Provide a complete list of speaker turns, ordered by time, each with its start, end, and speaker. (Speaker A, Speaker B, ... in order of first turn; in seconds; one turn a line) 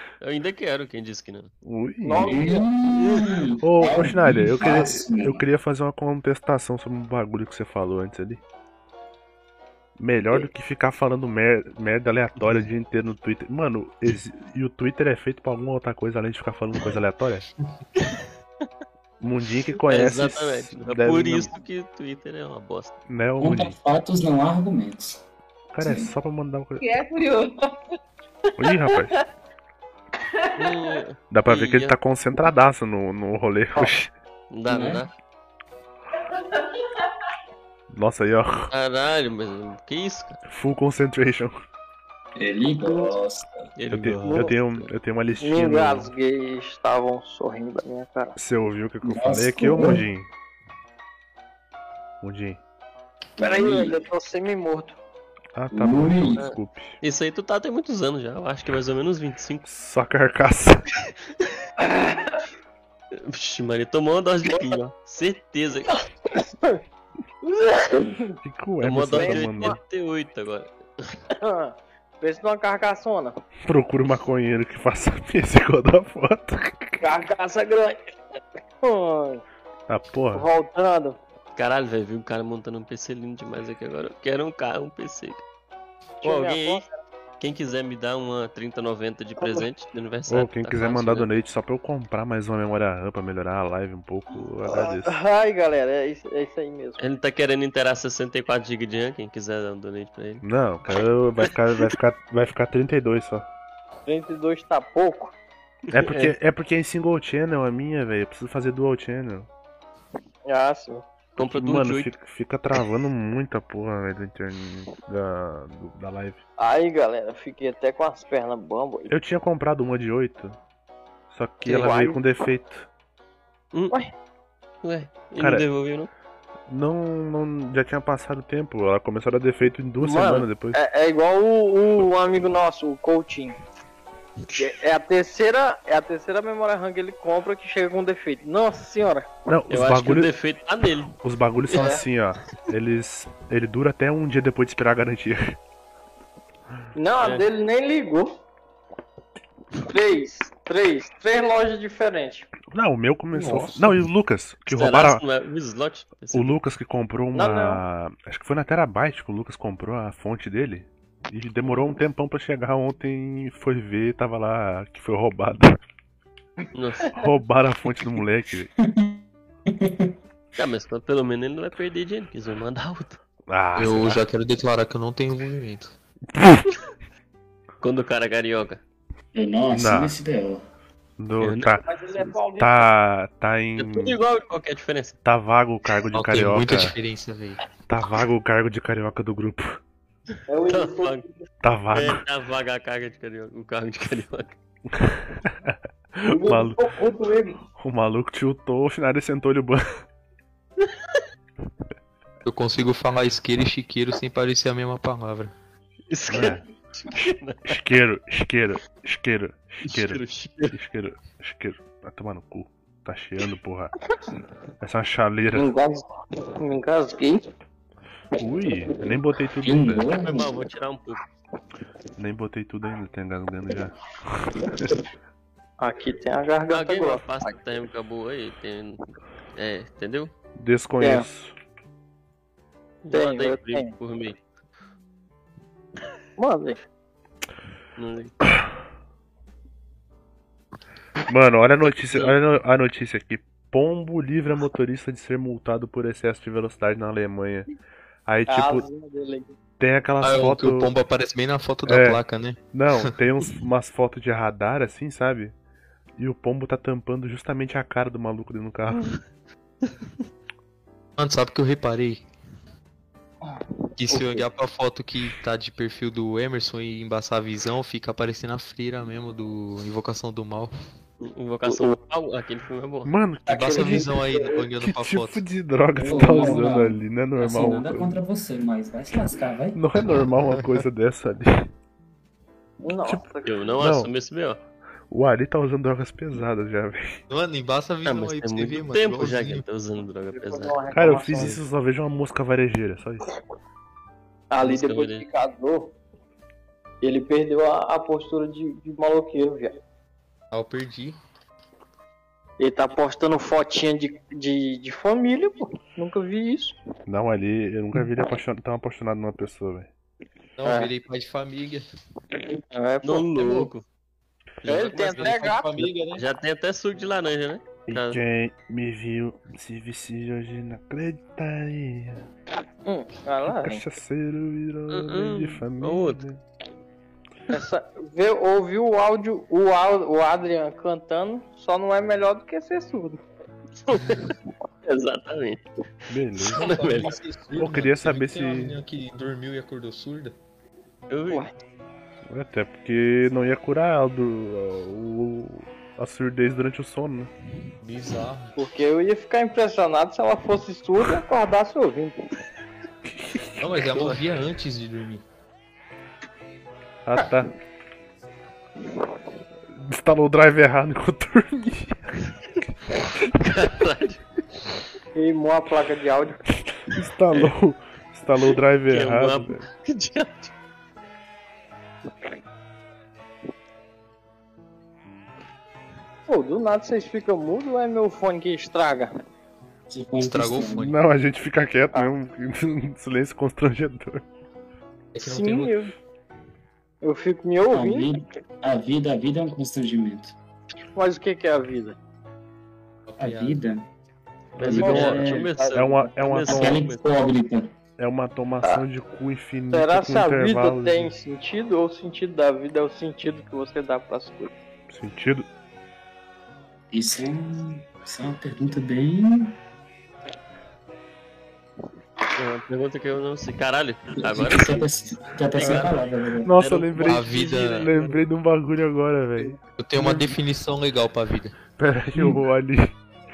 Speaker A: 0.2-1.5
Speaker B: 1.6-2.4
Speaker C: 2.0-3.1
Speaker D: 2.2-5.4
Speaker B: 3.6-8.4
Speaker B: 10.0-17.5
Speaker B: 19.2-21.5
Speaker A: 19.9-22.9
Speaker B: 23.1-23.8
Speaker D: 23.4-25.2
Speaker B: 25.7-26.9
Speaker D: 25.8-26.1
Speaker C: 26.8-27.7
Speaker B: 28.6-29.1
Speaker C: 28.6-29.2
Speaker A: 30.6-31.9
Speaker B: 31.3-34.1
Speaker A: 34.5-35.1
Speaker D: 34.7-35.0
Speaker B: 37.9-38.7
Speaker A: 38.7-40.4
Speaker B: 40.5-41.5
Speaker D: 42.4-43.5
Speaker C: 42.8-43.1
Speaker A: 43.8-44.9
Speaker B: 43.9-46.1
Speaker C: 44.2-44.5
Speaker C: 45.4-48.3
Speaker B: 48.4-50.3
Speaker D: 49.0-50.0
Speaker B: 52.2-52.6
Speaker D: 53.4-54.0
Speaker C: 53.4-55.0
Speaker B: 55.5-57.0
Speaker D: 55.7-56.4
Speaker A: 57.0-59.7
Speaker B: 59.7-60.8
Speaker C: 61.9-62.4
Speaker A: 63.1-66.0
Speaker C: 66.3-66.8
Speaker C: 67.4-68.3
Speaker B: 68.4-69.8
Speaker A: 68.8-71.1
Speaker C: 69.2-69.8
Speaker C: 71.4-73.4
Speaker B: 73.7-77.0
Speaker C: 77.0-78.2
Speaker C: 78.8-79.4
Speaker B: 79.9-80.5
Speaker C: 80.3-81.2
Speaker A: 81.5-85.4
Speaker A: 86.2-86.8
Speaker C: 86.2-86.9
Speaker A: 87.4-91.3
Speaker B: 90.3-95.2
Speaker C: 94.7-97.0
Speaker A: 97.0-100.4
Speaker B: 100.4-103.5
Speaker A: 101.4-101.9
Speaker C: 104.0-105.3
Speaker A: 105.9-106.3
Speaker B: 105.9-109.5
Speaker C: 110.5-111.0
Speaker A: 111.4-112.1
Speaker B: 111.4-116.4
Speaker C: 116.6-119.1
Speaker B: 119.1-120.5
Speaker B: 121.3-122.9
Speaker C: 121.7-122.2
Speaker A: 124.8-126.1
Speaker B: 125.4-125.7
Speaker B: 126.7-130.8
Speaker C: 130.0-133.6
Speaker C: 134.6-139.3
Speaker B: 139.5-140.3
Speaker A: 139.7-141.1
Speaker B: 141.2-145.6
Speaker C: 141.7-142.0
Speaker C: 146.9-148.3
Speaker A: 147.2-147.4
Speaker C: 149.8-152.5
Speaker B: 152.7-155.2
Speaker E: 153.3-153.8
Speaker A: 154.7-156.5
Speaker B: 156.3-165.8
Speaker C: 157.3-157.8
Speaker A: 166.7-167.1
Speaker B: 167.1-168.7
Speaker D: 168.8-170.1
Speaker A: 170.6-173.2
Speaker B: 173.5-174.2
Speaker E: 173.7-175.9
Speaker B: 176.3-176.7
Speaker A: 177.8-178.8
Speaker D: 179.3-180.6
Speaker B: 179.7-180.1
Speaker B: 181.2-181.8
Speaker A: 181.4-181.8
Speaker C: 181.8-182.8
Speaker B: 182.6-184.2
Speaker A: 183.8-185.2
Speaker B: 185.2-186.9
Speaker E: 186.1-187.6
Speaker B: 187.9-189.8
Speaker C: 190.5-191.4
Speaker A: 190.7-191.2
Speaker B: 191.6-192.2
Speaker A: 191.9-194.6
Speaker B: 194.9-196.8
Speaker C: 196.2-197.6
Speaker B: 197.8-199.8
Speaker E: 202.4-205.5
Speaker A: 206.1-207.7
Speaker B: 206.3-206.6
Speaker B: 207.6-213.9
Speaker A: 209.8-210.7
Speaker B: 214.8-215.7
Speaker C: 215.5-216.0
Speaker C: 216.6-217.4
Speaker B: 218.4-220.1
Speaker D: 219.6-220.5
Speaker A: 220.2-221.2
Speaker B: 222.2-224.9
Speaker C: 225.8-227.6
Speaker A: 226.7-229.0
Speaker A: 229.5-230.3
Speaker B: 230.6-231.5
Speaker C: 231.0-231.2
Speaker A: 233.0-234.4
Speaker C: 233.1-233.9
Speaker C: 236.4-236.8
Speaker A: 238.0-238.3
Speaker B: 241.3-247.7
Speaker A: 241.8-242.3
Speaker B: 248.2-248.8
Speaker C: 248.5-249.6
Speaker B: 249.8-250.9
Speaker E: 250.2-253.1
Speaker B: 251.8-252.2
Speaker B: 252.7-255.5
Speaker B: 256.2-259.1
Speaker E: 261.2-262.2
Speaker C: 263.4-264.4
Speaker E: 264.0-270.7
Speaker A: 271.2-273.1
Speaker C: 271.6-271.9
Speaker B: 273.1-274.1
Speaker E: 273.4-275.4
Speaker C: 273.7-274.5
Speaker B: 274.8-278.2
Speaker D: 276.0-279.8
Speaker C: 276.0-276.6
Speaker B: 279.7-281.7
Speaker C: 282.8-283.7
Speaker A: 283.4-284.6
Speaker B: 283.8-284.1
Speaker B: 285.1-287.2
Speaker E: 287.3-289.6
Speaker A: 288.0-290.8
Speaker C: 290.3-291.6
Speaker B: 290.9-293.2
Speaker C: 294.5-295.9
Speaker A: 294.6-295.2
Speaker C: 297.0-299.8
Speaker E: 300.5-301.2
Speaker C: 302.6-306.8
Speaker B: 307.1-309.9
Speaker E: 310.6-311.8
Speaker C: 310.6-310.9
Speaker C: 312.5-313.7
Speaker A: 313.0-313.8
Speaker A: 314.6-315.4
Speaker C: 314.6-315.9
Speaker E: 315.0-316.2
Speaker A: 316.1-318.2
Speaker B: 317.9-322.2
Speaker C: 322.9-323.8
Speaker B: 323.4-326.4
Speaker A: 324.9-326.2
Speaker C: 327.5-333.2
Speaker A: 333.9-334.3
Speaker A: 334.8-335.6
Speaker B: 336.1-336.7
Speaker A: 336.4-337.2
Speaker E: 336.5-340.3
Speaker B: 337.6-338.8
Speaker A: 341.1-341.4
Speaker B: 342.3-347.3
Speaker E: 347.8-348.6
Speaker C: 348.6-352.2
Speaker B: 353.0-353.7
Speaker E: 353.6-355.2
Speaker B: 357.0-357.5
Speaker B: 359.7-362.1
Speaker A: 363.2-364.2
Speaker C: 365.1-366.4
Speaker B: 366.9-369.6
Speaker A: 368.9-370.5
Speaker C: 376.3-379.1
Speaker D: 379.9-380.9
Speaker E: 380.2-380.9
Speaker B: 380.7-384.2
Speaker E: 385.1-385.8
Speaker C: 385.2-385.9
Speaker C: 387.0-388.1
Speaker D: 387.7-390.3
Speaker C: 390.9-392.0
Speaker E: 393.1-393.6
Speaker D: 393.2-393.9
Speaker A: 394.6-397.1
Speaker B: 394.6-396.8
Speaker D: 394.6-395.5
Speaker C: 394.6-395.9
Speaker D: 396.4-397.7
Speaker B: 398.0-401.1
Speaker C: 399.7-404.5
Speaker B: 404.9-405.5
Speaker D: 406.9-409.6
Speaker A: 412.4-414.9
Speaker D: 414.2-416.5
Speaker A: 415.5-416.0
Speaker C: 415.6-415.9
Speaker B: 416.4-419.6
Speaker A: 416.6-418.2
Speaker E: 417.0-417.9
Speaker D: 419.4-420.3
Speaker E: 419.8-421.6
Speaker B: 421.8-422.9
Speaker D: 422.1-422.4